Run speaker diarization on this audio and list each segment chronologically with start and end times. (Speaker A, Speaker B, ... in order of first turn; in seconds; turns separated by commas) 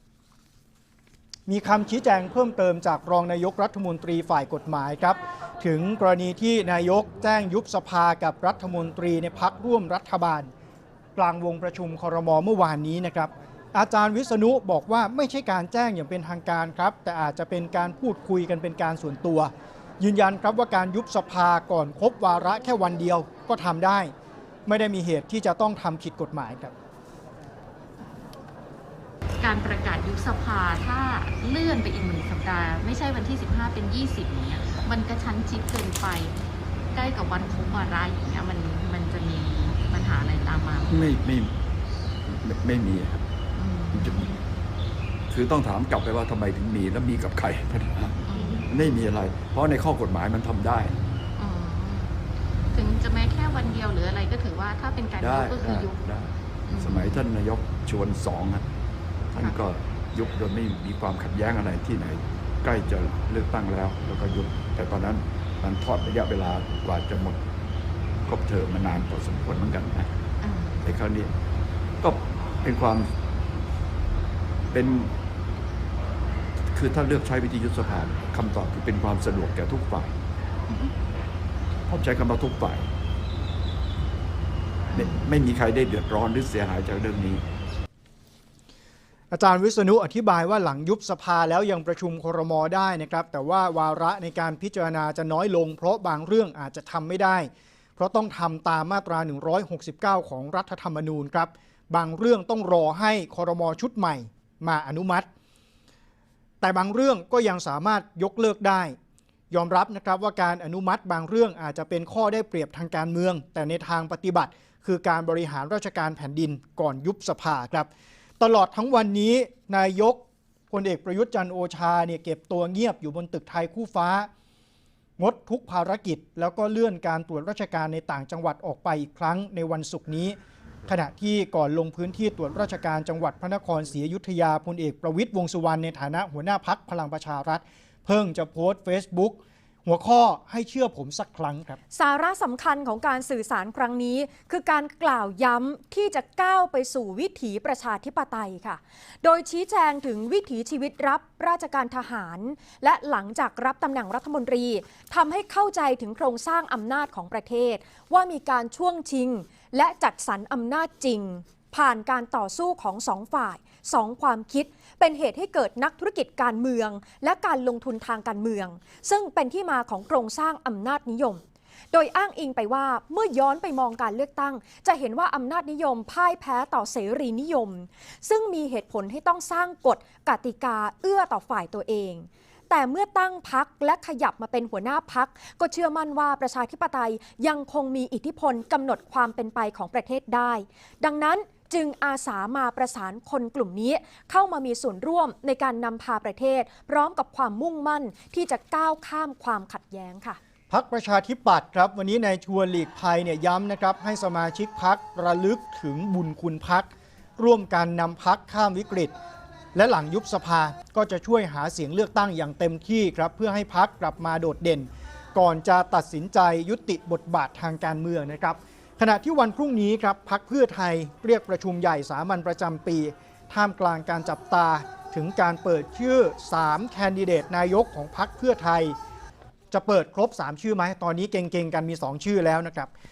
Speaker A: 1.5-10.5, Speaker A: 11.2-24.1, Speaker A: 24.7-26.7, Speaker B: 29.4-36.4, Speaker B: 36.9-41.1, Speaker C: 40.9-41.5, Speaker C: 42.2-43.2, Speaker B: 43.6-44.4, Speaker C: 43.9-44.3, Speaker C: 45.3-51.0, Speaker B: 48.3-48.9, Speaker B: 51.4-56.0, Speaker C: 55.2-58.7, Speaker B: 56.7-57.2, Speaker C: 59.3-67.4, Speaker C: 68.2-70.1, Speaker B: 70.4-70.8, Speaker C: 70.8-71.3, Speaker C: 72.0-73.1, Speaker C: 74.7-75.1, Speaker C: 76.7-80.2, Speaker B: 80.7-80.9, Speaker C: 81.9-82.9, Speaker C: 84.9-87.4, Speaker A: 89.3-105.3, Speaker A: 106.6-109.0, Speaker A: 109.5-117.9, Speaker A: 118.4-124.3, Speaker A: 125.2-130.4, Speaker A: 130.9-141.8, Speaker D: 141.9-171.4, Speaker D: 171.9-200.4, Speaker A: 200.7-209.1, Speaker A: 209.8-229.0, Speaker A: 229.7-232.9